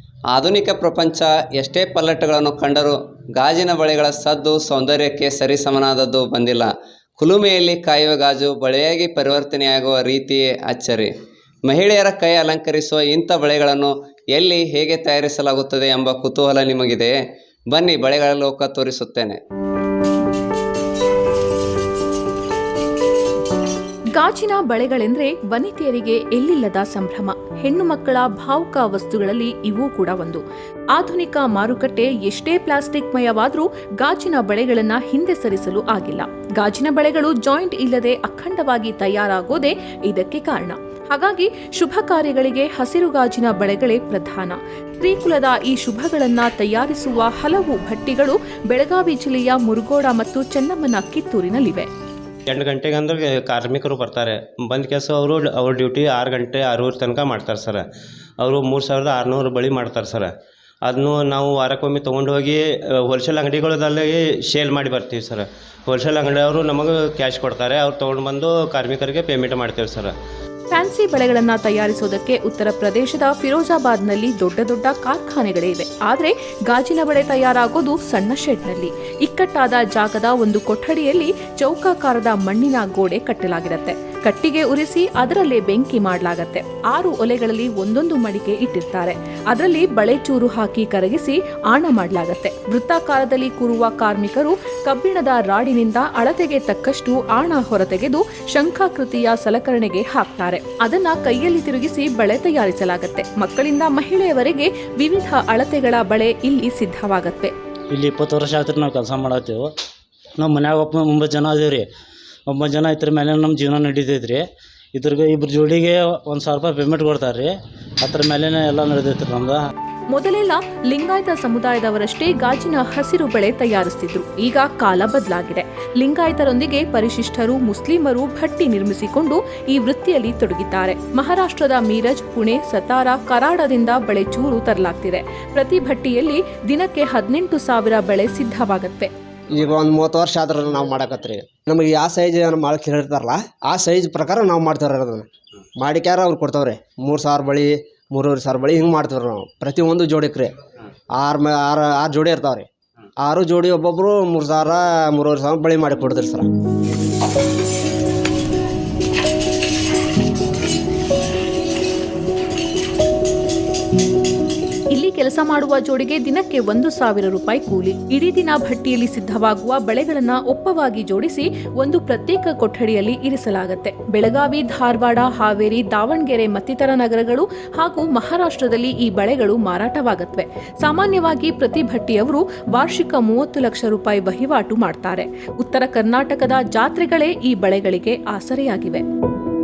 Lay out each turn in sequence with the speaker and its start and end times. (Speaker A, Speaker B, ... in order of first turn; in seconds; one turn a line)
Speaker A: 0.3-11.1
Speaker A: 11.7-17.2
Speaker A: 17.7-19.4
Speaker B: 24.2-51.9
Speaker C: 52.5-57.9
Speaker C: 58.4-60.3
Speaker C: 60.8-70.1
Speaker B: 70.7-107.5
Speaker D: 107.9-109.7
Speaker D: 110.4-111.9
Speaker D: 112.5-119.7
Speaker B: 120.1-139.1
Speaker E: 139.5-145.3
Speaker E: 145.8-150.5
Speaker E: 151.1-152.7
Speaker E: 153.2-156.5
Speaker B: 164.9-189.0